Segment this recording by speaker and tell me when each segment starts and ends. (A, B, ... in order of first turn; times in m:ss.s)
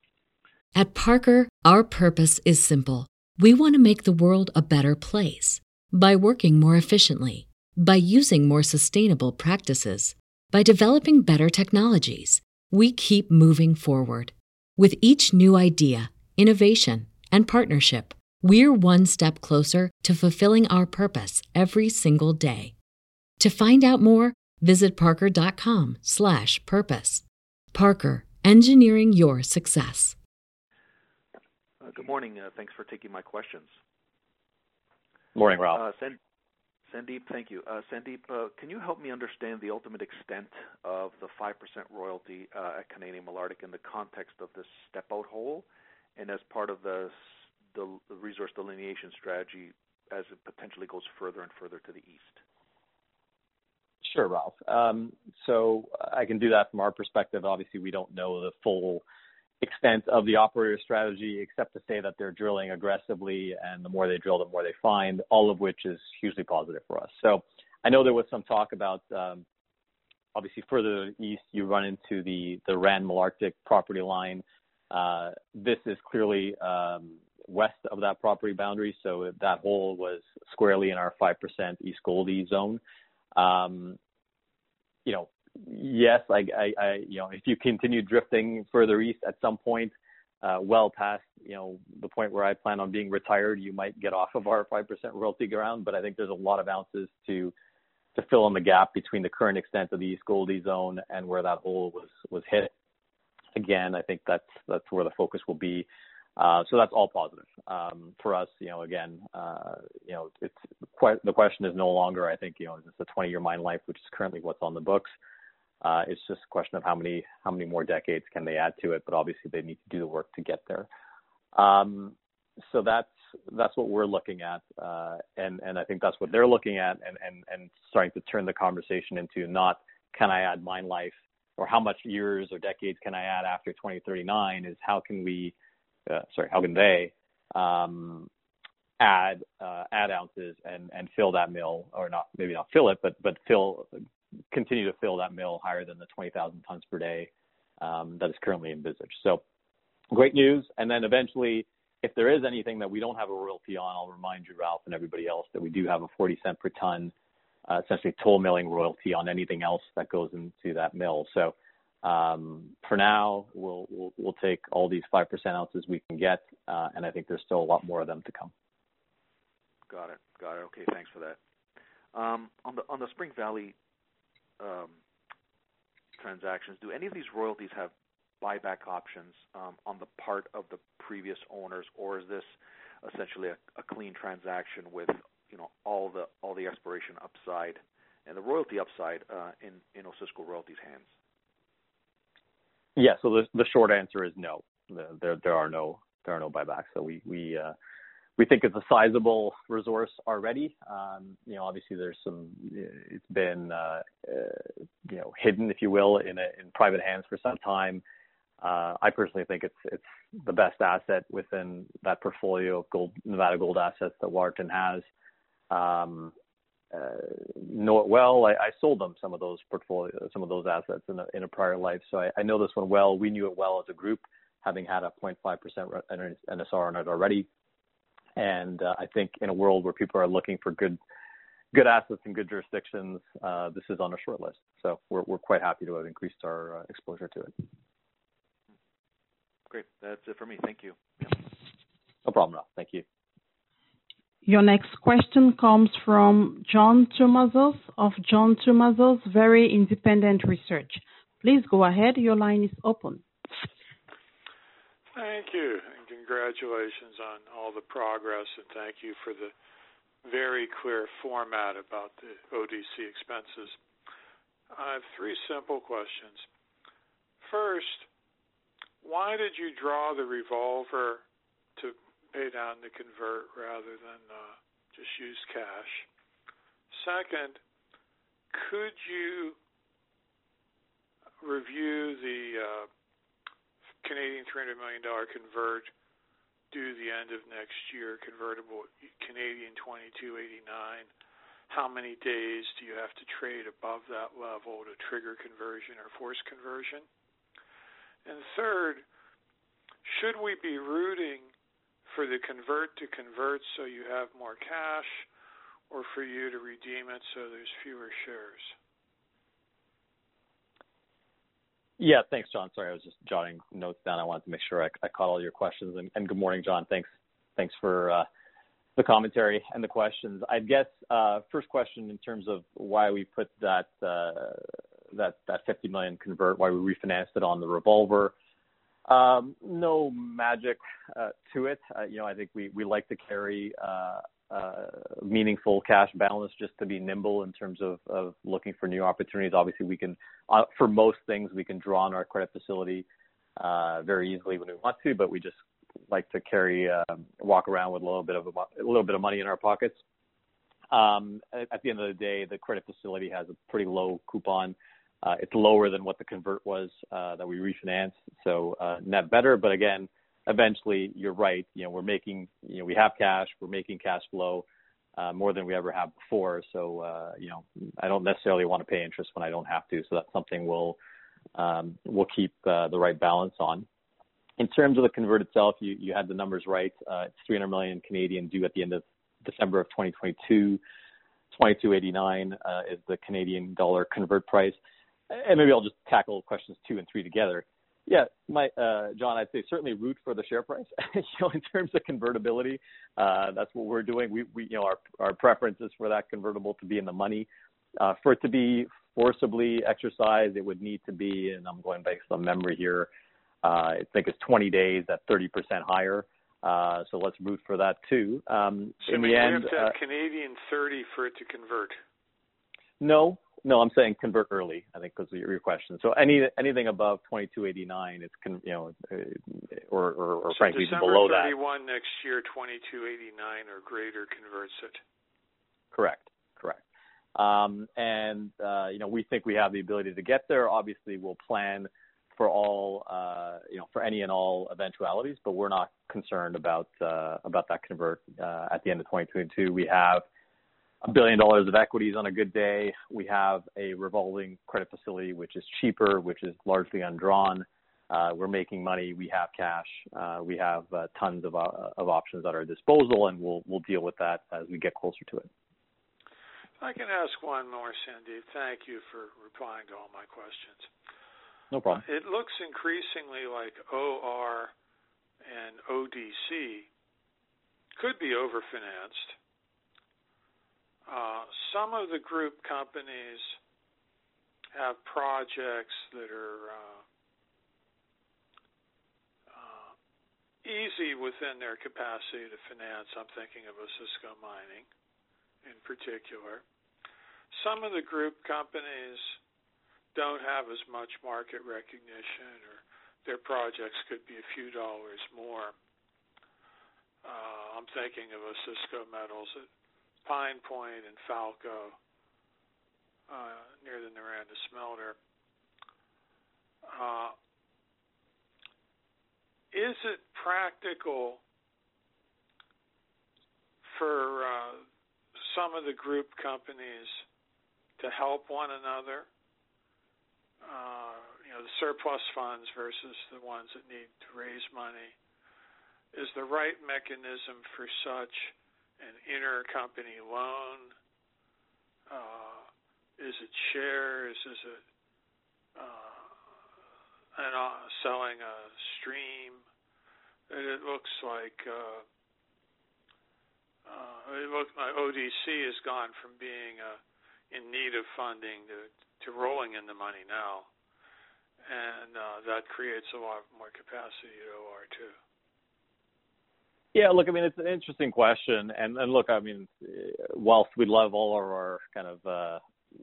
0:00.7-0:22.7 A
0:23.4-0:30.2 A
0:31.8-0:33.8 B
0:35.3-0:35.8 C
0:35.7-0:36.2 B
0:36.9-0:45.6 B
0:46.2-0:52.4 B
0:54.0-0:59.0 C
0:59.6-1:09.4 C
1:10.3-1:22.8 C
1:23.3-1:24.0 C
1:25.0-1:37.5 C
1:38.1-1:42.7 C
1:43.5-1:55.1 C
1:55.8-2:00.9 C
2:01.5-2:15.5 C
2:16.1-2:18.3 C
2:19.0-2:23.9 C
2:24.5-2:29.4 C
2:30.1-2:37.1 C
2:37.7-2:48.5 C
2:49.9-2:51.4 B
2:52.1-2:53.7 B
2:54.6-2:55.0 B
2:56.2-3:11.1 B
3:13.0-3:17.7 C
3:18.4-3:28.0 C
3:28.6-3:35.0 C
3:35.7-3:36.3 C
3:36.9-3:47.5 C
3:48.4-3:51.0 C
3:51.7-3:57.5 C
3:59.7-4:01.4 B
4:02.2-4:03.0 C
4:04.4-4:13.2 D
4:15.1-4:19.5 E
4:20.2-4:23.8 E
4:24.7-4:26.5 E
4:27.4-4:28.1 E
4:29.0-4:31.2 E
4:31.8-4:36.1 E
4:36.9-4:37.6 E
4:38.5-4:39.6 E
4:41.4-4:42.9 E
4:44.0-4:45.9 E
4:46.7-4:51.1 E
4:51.7-4:57.0 E
4:58.2-4:59.0 E
5:00.0-5:01.5 E
5:02.0-5:05.3 E
5:05.9-5:08.7 E
5:12.0-5:18.2 C
5:19.0-5:28.3 C
5:29.1-5:43.0 C
5:43.6-5:45.6 C
5:46.1-5:50.0 C
5:50.9-6:04.6 C
6:05.2-6:11.0 C
6:11.5-6:13.9 C
6:14.6-6:20.8 C
6:21.5-6:24.8 C
6:25.3-6:43.1 C
6:43.6-6:49.9 C
6:49.0-6:52.0 E
6:53.0-7:01.5 C
7:00.5-7:05.0 E
7:05.9-7:06.8 C
7:07.3-7:20.2 C
7:21.0-7:35.5 C
7:36.8-7:40.9 E
7:41.7-7:42.0 C
7:41.9-7:44.7 E
7:45.4-7:46.9 E
7:48.0-7:49.4 E
7:51.1-7:53.6 E
7:54.7-7:57.0 E
7:59.5-7:59.9 E
8:00.6-8:04.8 E
8:05.6-8:06.6 E
8:07.5-8:09.4 E
8:10.1-8:15.7 E
8:17.2-8:19.7 E
8:20.2-8:22.0 E
8:23.3-8:25.2 E
8:26.9-8:27.3 E
8:29.7-8:31.4 E
8:33.9-8:34.8 E
8:35.4-8:37.2 E
8:38.0-8:39.3 E
8:40.6-8:45.1 E
8:46.1-8:50.9 E
8:52.1-8:54.8 E
8:55.8-8:56.4 E
8:57.3-8:59.6 E
9:00.5-9:02.0 E
9:03.8-9:07.0 E
9:07.5-9:10.7 E
9:11.6-9:15.2 E
9:16.9-9:22.6 C